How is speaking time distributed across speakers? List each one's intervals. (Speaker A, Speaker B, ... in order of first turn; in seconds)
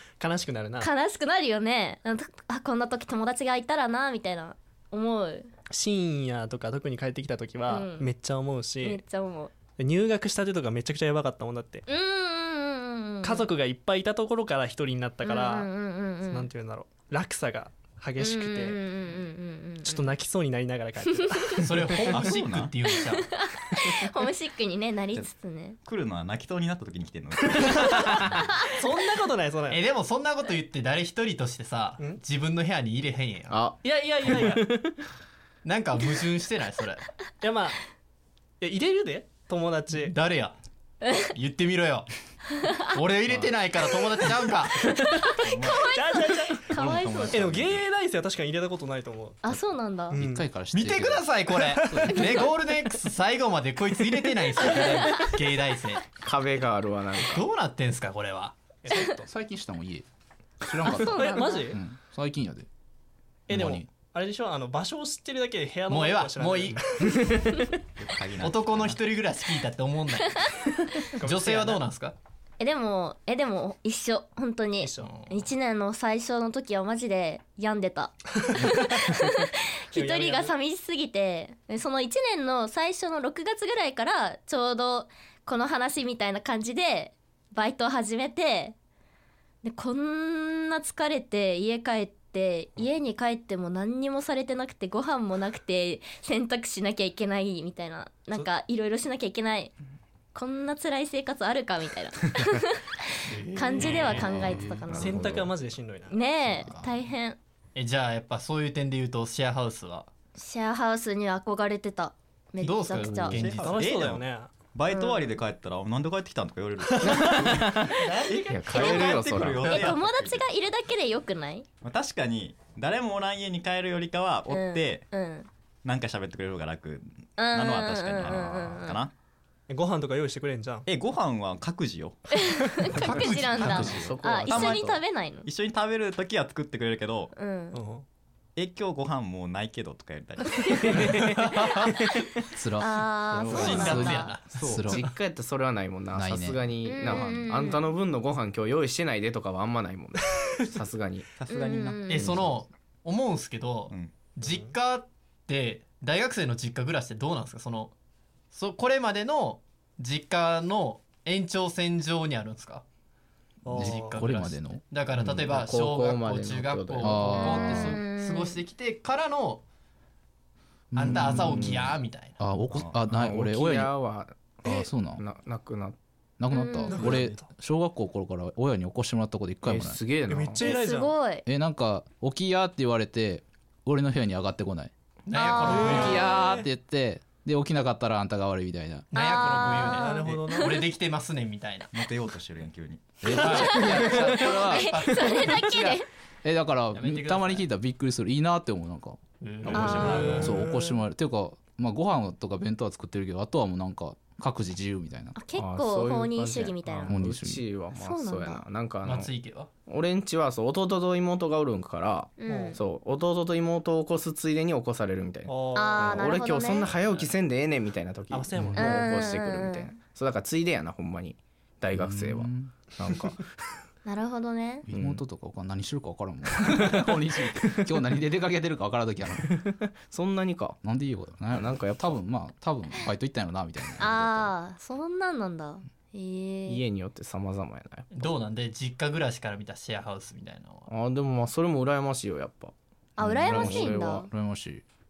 Speaker A: 0.2-0.9, 5.7-9.0, 9.8-11.8, 13.2-15.7, 16.3-18.8, 19.8-22.1, 27.5-28.2, 28.8-29.8, 34.2-35.0, 37.4-37.8, 38.6-40.1, 45.1-46.7, 47.3-49.4, 50.1-50.5, 51.6-52.9, 54.2-55.3, 58.9-59.3, 60.9-61.8, 63.5-67.8, 71.2-71.8, 74.8-75.2, 78.6-79.2, 79.9-80.5, 105.0-106.3, 113.6-114.5, 129.7-130.9, 137.7-138.0, 163.7-164.3, 176.9-177.5, 180.3-181.2, 185.9-186.7, 189.2-190.8, 200.0-200.7, 212.4-212.8, 215.5-216.6, 218.3-219.2
Speaker B: 0.8-5.5, 7.7-8.1, 8.8-9.5, 11.9-13.5, 15.2-16.5, 18.2-20.1, 21.2-21.6, 23.1-25.8, 41.0-41.3, 45.1-47.4, 49.4-50.2, 61.0-61.7, 72.6-88.8, 89.6-99.7, 100.3-105.2, 106.1-107.4, 110.4-113.4, 114.9-115.3, 119.7-121.7, 124.5-125.5, 127.4-129.0, 132.4-135.5, 137.3-137.8, 142.8-144.4, 146.8-147.8, 151.5-152.3, 167.3-168.6, 176.5-177.0, 180.6-181.4, 185.3-186.2, 189.1-190.1, 193.5-196.1, 199.7-200.4, 205.4-207.2, 207.9-208.6, 212.4-212.8, 215.7-216.9, 218.8-219.9, 224.1-224.9, 234.0-236.8, 243.2-244.3
Speaker C: 21.6-23.3, 29.7-34.7, 35.6-37.0, 40.0-40.6, 41.3-42.1, 42.9-44.9, 50.7-56.0, 57.3-58.5, 65.9-66.8, 68.4-70.5, 71.2-72.2, 75.0-75.3, 103.3-104.3, 107.8-110.1, 112.6-113.8, 118.0-119.8, 141.2-141.7, 143.5-144.6, 152.1-157.9, 158.5-162.8, 163.8-169.6, 171.0-172.4, 185.3-186.3, 189.1-191.9, 193.3-195.7, 196.9-197.7, 199.4-200.8, 209.0-209.7, 238.1-240.9
Speaker D: 22.1-22.7, 25.9-28.7, 45.4-46.0, 46.7-47.9, 68.0-69.0, 113.0-120.5, 121.8-125.1, 125.8-129.1, 130.9-132.4, 133.0-134.9, 135.4-137.3, 138.6-141.1, 143.6-145.0, 151.4-152.1, 153.9-154.2, 172.7-173.0, 191.9-193.6
Speaker E: 33.5-33.8, 56.2-57.5, 104.3-105.5, 117.0-119.8, 133.0-135.0, 143.3-144.2, 144.9-151.3, 165.2-167.9, 171.1-172.0, 173.1-176.0, 179.7-180.7, 199.7-200.5, 205.6-209.3, 209.9-223.4, 224.9-225.2, 229.5-230.8, 231.5-232.2, 236.7-238.1, 240.9-242.7, 243.4-244.3
Speaker F: 49.5-52.5, 58.9-60.1, 60.6-62.7, 63.5-63.9, 104.3-104.9, 106.5-107.0, 133.6-134.1, 142.6-145.1, 146.2-147.5, 163.7-164.8, 167.0-167.9, 170.9-171.8, 172.4-173.9, 174.6-175.2, 176.4-180.0, 181.5-184.9, 185.6-189.1, 193.2-195.1, 196.4-205.4, 207.1-207.7, 221.9-222.7, 224.9-229.6, 230.8-234.6, 243.2-244.8